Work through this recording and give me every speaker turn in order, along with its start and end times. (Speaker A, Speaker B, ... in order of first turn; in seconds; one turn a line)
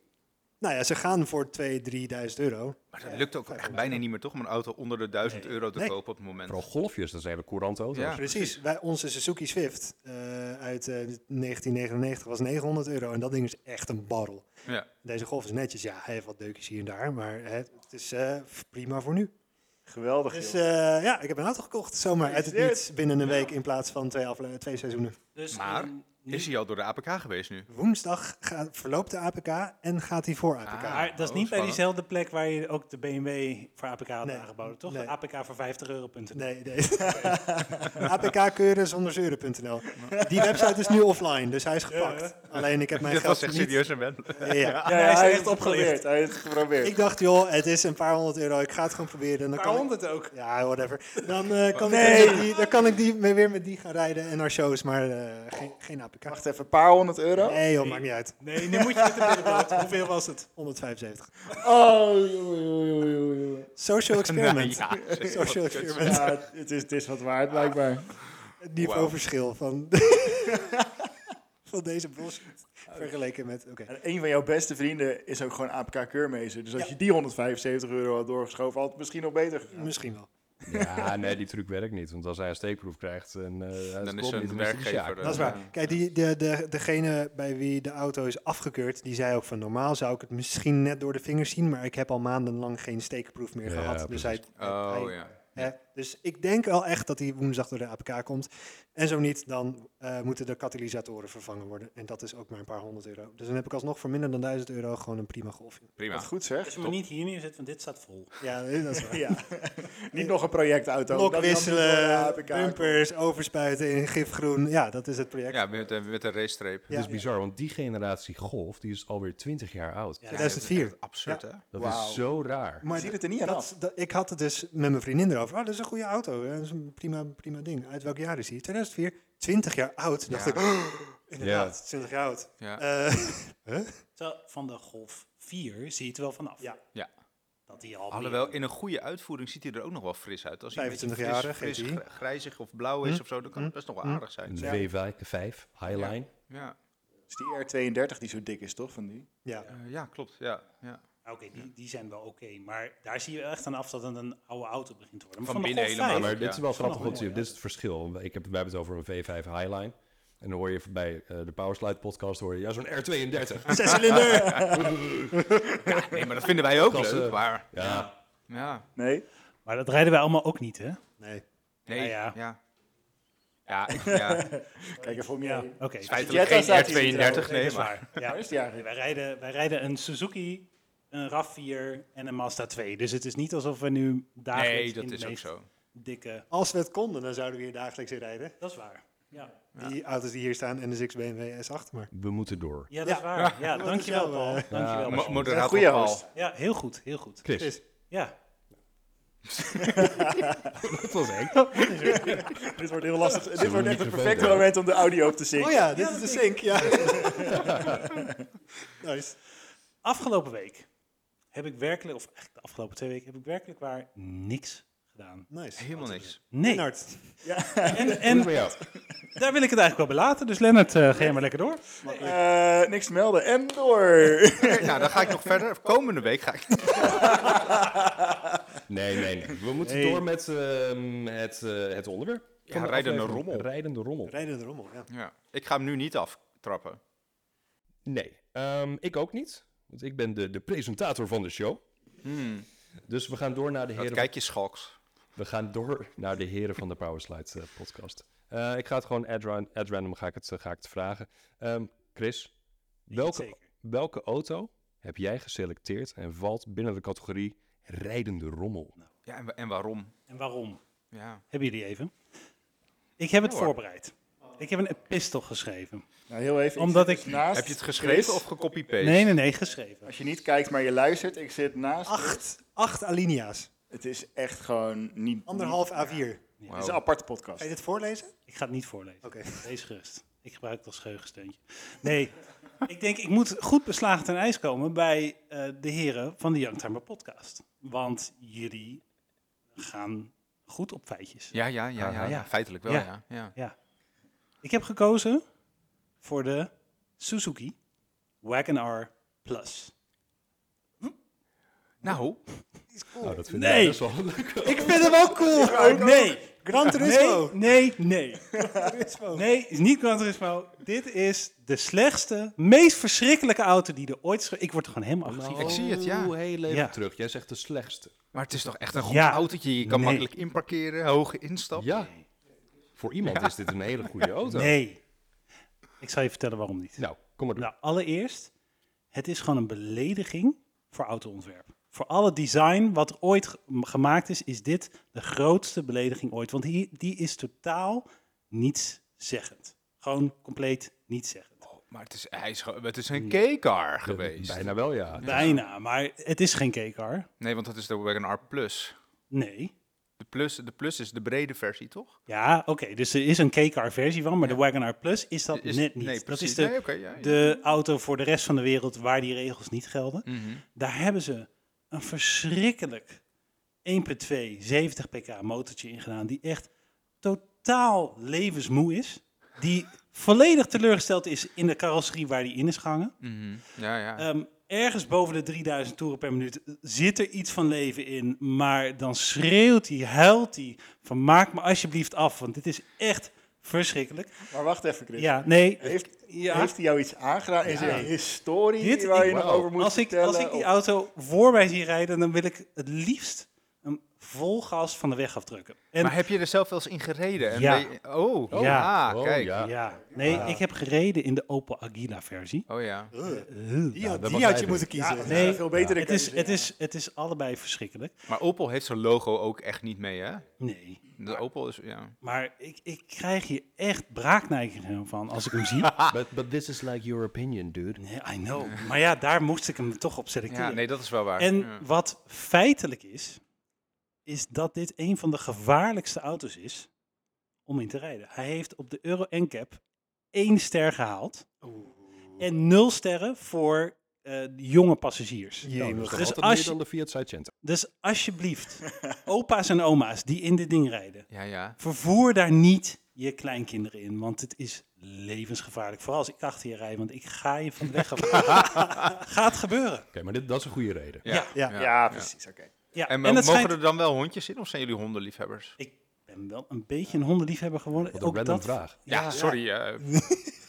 Speaker A: 0.6-4.0
Speaker B: 2.9-6.6
Speaker C: 6.5-8.2
Speaker B: 7.9-8.5
Speaker A: 8.1-14.5
Speaker A: 15.0-19.3
Speaker D: 19.9-20.6
Speaker A: 20.3-25.2
Speaker D: 22.2-22.8
Speaker E: 25.3-26.5
Speaker B: 25.5-27.7
Speaker A: 27.7-31.1
Speaker B: 30.6-31.8
Speaker E: 30.9-36.5
Speaker A: 34.2-35.1
Speaker A: 36.3-44.8
Speaker D: 37.0-38.0
Speaker D: 40.0-40.7
Speaker E: 41.9-42.4
Speaker B: 43.0-44.9
Speaker E: 44.8-46.0
Speaker D: 44.9-47.0
Speaker A: 46.8-56.4
Speaker E: 49.5-50.3
Speaker B: 51.7-52.3
Speaker D: 51.8-52.5
Speaker D: 56.3-57.6
Speaker A: 57.4-58.4
Speaker E: 57.8-60.4
Speaker D: 58.6-59.8
Speaker A: 59.9-61.6
Speaker D: 61.5-63.7
Speaker A: 63.8-66.4
Speaker B: 64.2-66.3
Speaker D: 66.0-68.1
Speaker A: 68.6-70.8
Speaker B: 68.8-69.1
Speaker D: 70.5-70.9
Speaker A: 71.7-73.9
Speaker D: 73.9-79.9
Speaker A: 79.7-80.3
Speaker C: 80.7-85.5
Speaker D: 80.7-81.0
Speaker B: 84.0-85.7
Speaker A: 85.2-105.9
Speaker E: 85.3-85.6
Speaker C: 93.7-94.4
Speaker B: 94.6-95.7
Speaker B: 106.0-106.9
Speaker D: 106.1-106.9
Speaker E: 106.6-108.3
Speaker A: 108.4-109.3
Speaker D: 109.0-113.0
Speaker A: 111.1-115.6
Speaker B: 115.5-116.9
Speaker A: 116.9-117.2
Speaker C: 116.9-120.3
Speaker E: 120.2-120.6
Speaker B: 120.3-121.7
Speaker A: 120.3-121.4
Speaker C: 121.7-122.8
Speaker D: 121.7-122.2
Speaker A: 122.8-133.9
Speaker D: 122.9-123.7
Speaker B: 130.3-130.6
Speaker C: 131.4-131.7
Speaker E: 134.2-136.7
Speaker E: 137.7-138.6
Speaker B: 138.1-144.7
Speaker A: 140.7-142.0
Speaker A: 143.0-144.2
Speaker C: 144.5-146.3
Speaker D: 144.6-144.8
Speaker B: 145.9-146.8
Speaker D: 147.3-149.3
Speaker A: 149.4-149.7
Speaker B: 149.7-151.0
Speaker E: 151.2-157.5
Speaker B: 155.4-157.2
Speaker C: 156.1-164.1
Speaker A: 163.7-165.6
Speaker B: 163.8-164.7
Speaker D: 164.2-164.9
Speaker C: 164.7-165.4
Speaker D: 165.7-166.2
Speaker B: 165.8-168.9
Speaker C: 166.8-168.1
Speaker E: 167.8-168.1
Speaker D: 168.9-169.2
Speaker E: 169.6-171.0
Speaker A: 171.2-171.4
Speaker B: 171.9-172.6
Speaker E: 171.9-172.4
Speaker B: 173.7-174.5
Speaker D: 173.9-178.9
Speaker A: 175.2-175.6
Speaker E: 175.5-186.4
Speaker B: 176.1-178.1
Speaker B: 184.5-185.7
Speaker A: 186.5-188.6
Speaker E: 188.6-189.6
Speaker A: 189.7-192.1
Speaker C: 192.1-192.9
Speaker E: 192.9-195.5
Speaker A: 193.0-194.7
Speaker B: 193.3-193.7
Speaker C: 194.7-195.5
Speaker B: 194.8-196.2
Speaker D: 195.4-196.3
Speaker E: 196.3-198.3
Speaker C: 197.4-197.8
Speaker A: 197.6-197.8
Speaker B: 199.5-200.3
Speaker D: 199.7-200.7
Speaker C: 200.8-201.7
Speaker B: 201.6-202.2
Speaker A: 201.9-202.5
Speaker D: 201.9-205.8
Speaker C: 203.5-204.7
Speaker A: 205.6-208.0
Speaker E: 205.9-206.9
Speaker D: 206.8-208.3
Speaker C: 207.5-208.0
Speaker A: 209.0-209.3
Speaker E: 210.0-210.9
Speaker E: 211.5-215.5
Speaker A: 215.5-217.2
Speaker B: 215.8-216.4
Speaker E: 216.5-216.9
Speaker D: 217.4-218.8
Speaker E: 217.9-218.6
Speaker C: 218.2-218.8
Speaker E: 219.3-222.3
Speaker A: 222.0-222.4
Speaker D: 222.1-225.3
Speaker B: 224.6-227.6
Speaker D: 227.0-228.5
Speaker C: 228.9-234.3
Speaker E: 229.8-230.2
Speaker B: 232.7-233.7
Speaker A: 234.3-235.1
Speaker B: 235.1-237.0
Speaker C: 238.1-241.8
Speaker B: 242.2-242.7
Speaker C: 243.1-244.3
Speaker B: 244.0-244.9
Speaker C: 245.3-252.5
Speaker C: 253.1-258.9
Speaker E: 253.1-253.6
Speaker B: 259.2-260.1
Speaker E: 260.3-260.8
Speaker B: 261.1-261.4
Speaker E: 261.5-262.1
Speaker E: 263.2-266.0
Speaker B: 263.4-263.7
Speaker D: 266.3-268.4
Speaker E: 266.8-267.4
Speaker B: 267.5-269.3
Speaker E: 269.0-270.1
Speaker D: 270.0-272.4
Speaker A: 272.1-273.7
Speaker D: 273.9-275.8
Speaker A: 275.5-276.4
Speaker B: 276.7-277.0
Speaker D: 276.7-277.7
Speaker A: 277.6-278.3
Speaker E: 278.5-289.0
Speaker A: 279.2-279.7
Speaker E: 289.7-293.7
Speaker B: 291.5-293.5
Speaker E: 294.6-295.4
Speaker E: 296.2-297.7
Speaker E: 298.4-299.9
Speaker B: 302.0-302.4
Speaker A: 302.9-303.4
Speaker C: 303.2-305.1
Speaker E: 303.4-304.0
Speaker E: 304.6-308.5
Speaker A: 304.6-306.0
Speaker D: 305.4-306.4
Speaker A: 306.6-307.6
Speaker D: 308.5-308.9
Speaker A: 308.6-309.5
Speaker E: 309.3-315.8
Speaker C: 315.2-318.2
Speaker B: 315.6-316.3
Speaker E: 316.7-316.9
Speaker B: 318.3-322.0
Speaker E: 319.0-320.3
Speaker C: 321.7-322.1
Speaker C: 323.0-324.8
Speaker E: 324.4-325.0
Speaker E: 326.0-327.0
Speaker C: 327.0-327.7
Speaker E: 327.6-328.5
Speaker E: 329.1-341.6
Speaker B: 341.6-345.6
Speaker C: 344.0-345.5
Speaker E: 345.2-347.3
Speaker B: 347.4-348.9
Speaker E: 349.3-349.7
Speaker B: 350.2-352.2
Speaker E: 352.3-363.2
Speaker B: 355.5-357.5
Speaker B: 360.3-360.6
Speaker E: 363.8-366.7
Speaker E: 367.2-373.1
Speaker B: 373.2-374.3
Speaker E: 374.2-384.4
Speaker D: 384.5-390.7
Speaker E: 385.1-386.7
Speaker E: 387.7-388.1
Speaker E: 388.8-396.2
Speaker C: 389.1-389.7
Speaker B: 396.0-399.6
Speaker E: 397.4-397.9
Speaker E: 398.5-398.9
Speaker C: 398.5-400.5
Speaker E: 399.6-402.7
Speaker A: 400.2-400.6
Speaker B: 402.7-403.1
Speaker A: 403.1-405.6
Speaker E: 403.2-404.0
Speaker C: 404.0-404.9
Speaker D: 404.9-406.7
Speaker E: 405.2-408.1
Speaker C: 405.6-406.0
Speaker B: 408.3-410.5
Speaker E: 410.6-411.1
Speaker B: 411.1-412.1
Speaker E: 412.2-415.9
Speaker B: 415.8-416.1
Speaker C: 416.1-418.0
Speaker E: 418.0-423.4
Speaker B: 420.5-421.8
Speaker E: 424.2-426.9
Speaker E: 427.6-431.5
Speaker A: 431.6-432.4
Speaker E: 432.4-436.8
Speaker A: 435.6-436.3
Speaker C: 435.7-437.5
Speaker E: 437.6-441.3
Speaker B: 441.3-441.8
Speaker E: 441.8-450.1
Speaker B: 448.3-449.1
Speaker C: 450.1-451.2
Speaker B: 451.2-452.3
Speaker E: 451.2-451.6
Speaker D: 451.7-452.7
Speaker E: 452.9-453.7
Speaker B: 453.1-455.8
Speaker E: 455.8-459.6
Speaker C: 458.1-459.0
Speaker B: 459.1-460.3
Speaker A: 459.2-460.5